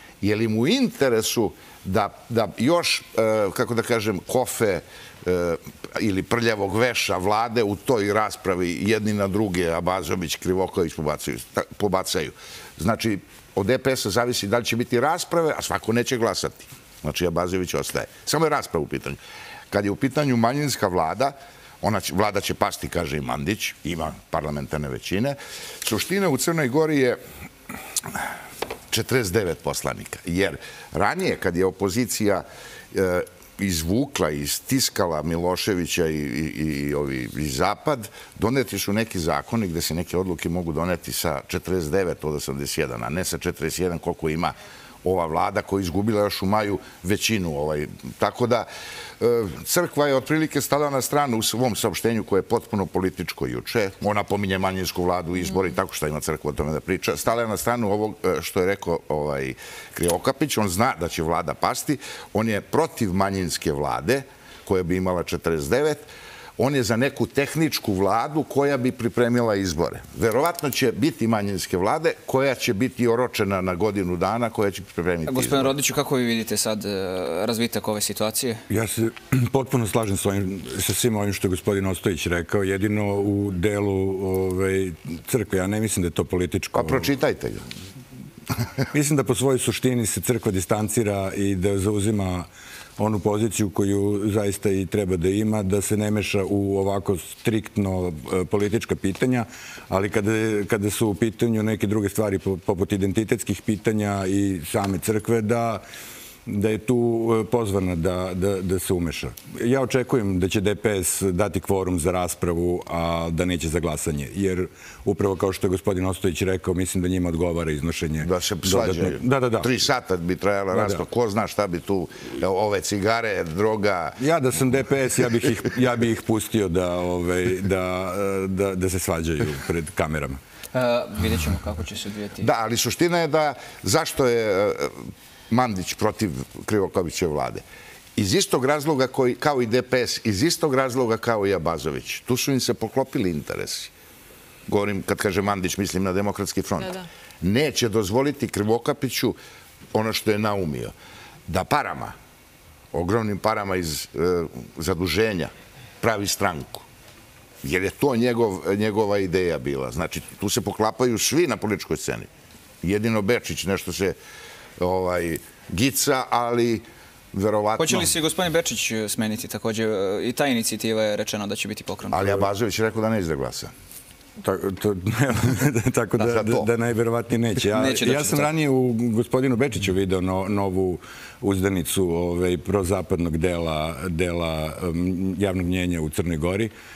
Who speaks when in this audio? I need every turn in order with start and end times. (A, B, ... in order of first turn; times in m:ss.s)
0:00.2-0:19.2 A
0:19.7-0:27.2 A
0:28.9-0:48.7 A
0:49.2-1:15.7 A
1:15.3-1:18.6 B
1:18.7-1:27.0 C
1:26.7-1:27.6 A
1:28.9-1:45.8 C
1:46.5-1:59.7 C
1:58.2-2:04.2 A
2:00.8-2:01.0 C
2:04.2-2:10.4 C
2:10.7-2:12.5 B
2:12.4-2:17.6 A
2:18.2-2:23.9 A
2:24.7-2:29.4 A
2:29.9-2:30.9 A
2:31.5-2:32.1 A
2:32.9-2:36.9 A
2:37.6-2:42.3 A
2:42.8-2:44.2 A
2:44.8-2:48.1 A
2:47.8-2:52.4 B
2:52.1-2:53.7 A
2:54.4-3:06.7 C
2:56.2-2:56.7 A
2:57.8-2:58.5 B